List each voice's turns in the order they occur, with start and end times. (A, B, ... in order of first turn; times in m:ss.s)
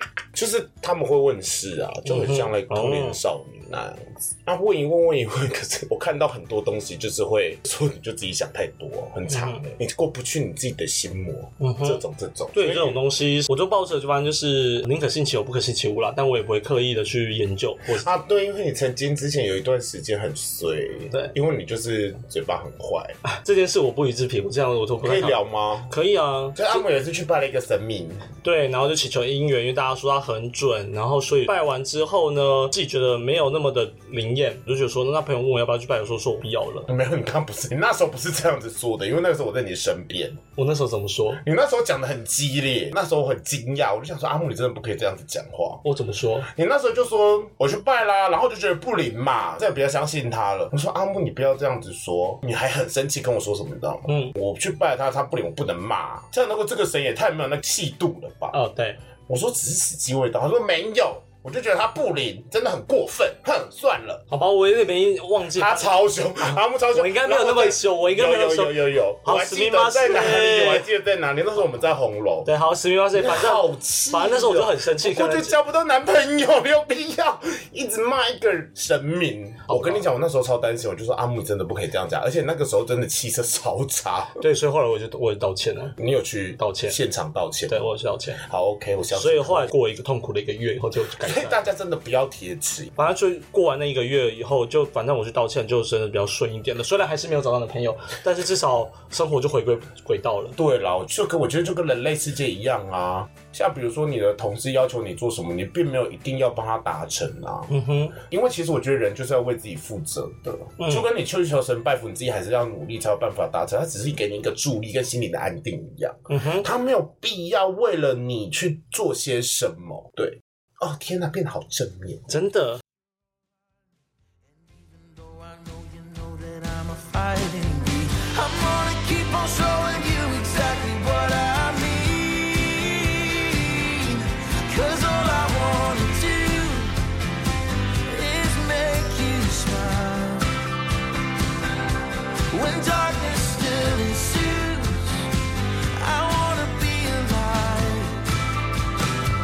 0:00.3-0:13.0 A
0:02.0-0:03.2 B
0:09.3-0:09.6 B
0:11.6-0:12.0 B
0:12.5-0:18.1 B
0:17.9-0:23.2 A
0:23.2-0:26.8 B
0:25.0-0:25.9 A
0:26.6-0:28.2 A
0:28.4-0:36.9 B
0:36.9-0:40.4 A
0:40.5-0:41.4 B
0:41.4-0:45.8 A
0:45.8-0:46.5 B
0:46.4-0:58.6 A
0:54.1-0:54.3 B
0:58.5-0:59.0 B
0:59.3-1:04.2 A
1:04.3-1:06.0 B
1:05.5-1:12.5 A
1:06.5-1:10.9 B
1:12.4-1:15.5 B
1:13.1-1:24.4 A
1:19.7-1:20.0 B
1:24.4-1:26.0 B
1:26.0-1:27.9 A
1:26.6-1:27.0 B
1:27.7-1:28.4 B
1:28.4-1:29.7 A
1:29.1-1:31.6 B
1:31.2-1:32.9 A
1:33.0-1:40.6 B
1:40.6-2:02.3 A
1:47.7-1:48.2 B
1:50.8-1:51.0 B
1:56.3-1:56.7 B
2:02.3-2:02.8 B
2:04.5-2:17.0 C
2:18.0-2:20.5 C
2:22.5-2:25.3 C
2:25.9-2:28.3 C